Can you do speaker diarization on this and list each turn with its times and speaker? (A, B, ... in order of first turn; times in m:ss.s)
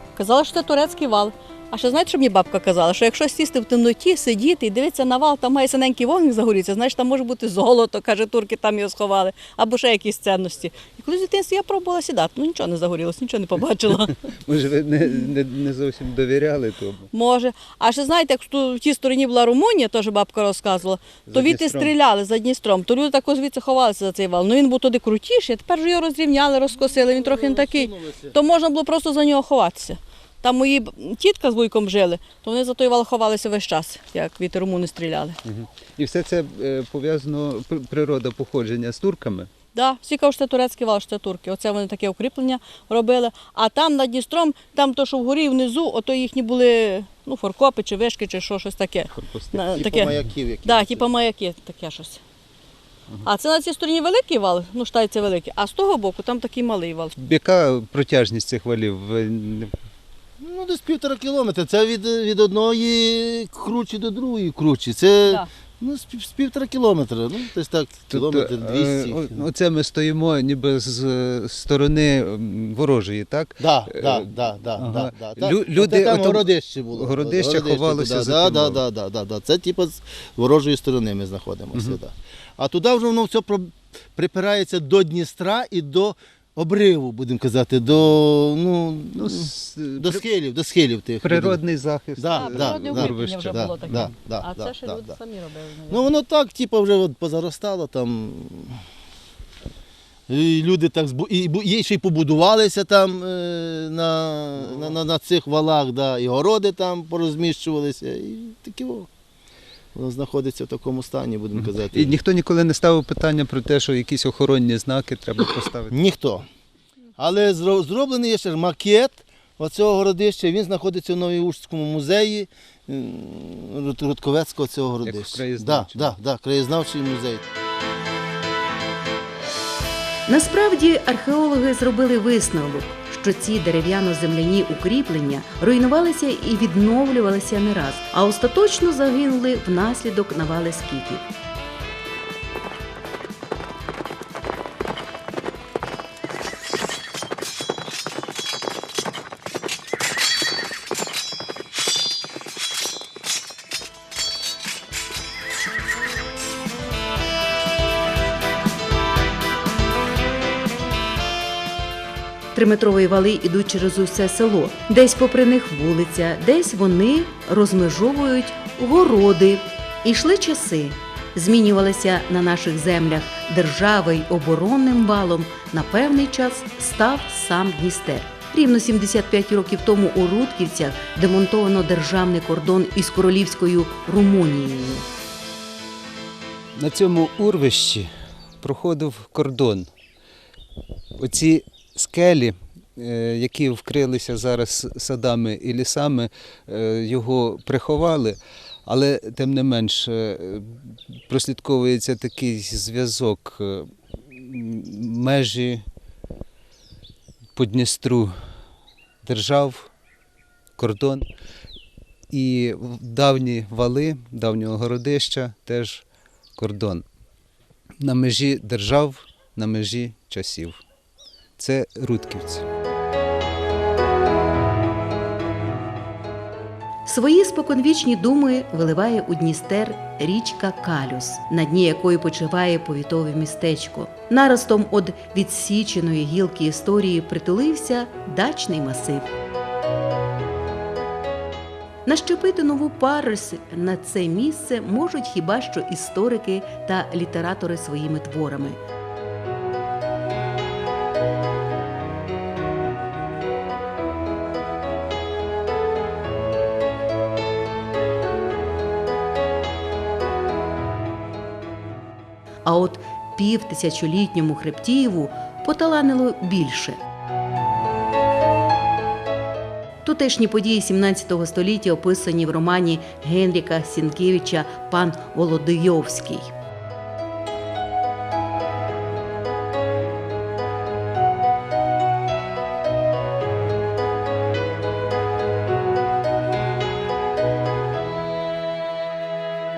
0:00.2-0:14.2 A
0:14.4-0:17.1 B
0:17.1-0:35.4 A
0:21.3-0:21.9 B
0:26.8-0:28.4 C
0:35.4-0:39.5 B
0:39.7-0:52.2 A
0:49.1-0:49.9 B
0:49.6-0:51.1 C
0:53.2-0:57.1 A
0:57.2-0:59.7 B
1:00.4-1:09.4 C
1:08.1-1:18.8 B
1:13.6-1:31.6 C
1:29.1-1:30.2 B
1:31.2-1:34.1 B
1:32.2-1:35.2 C
1:32.4-1:36.1 A
1:35.9-1:38.8 C
1:40.3-1:49.1 C
1:50.0-1:52.2 C
1:51.6-1:56.0 B
1:55.9-1:56.5 C
1:57.2-2:07.4 C
2:05.0-2:06.1 B
2:10.3-2:21.2 D
2:42.5-3:05.1 D
3:06.8-3:08.1 B
3:08.6-3:09.9 B
3:11.2-3:25.8 B
3:27.6-3:28.3 B
3:29.2-3:29.9 B
3:30.8-3:31.3 B
3:32.3-3:36.0 B
3:36.6-3:37.1 B
3:38.0-3:40.8 B
3:41.6-3:42.7 B
3:47.1-3:59.3 D
4:02.0-4:08.8 D
4:22.6-4:27.0 D
4:30.0-4:36.5 D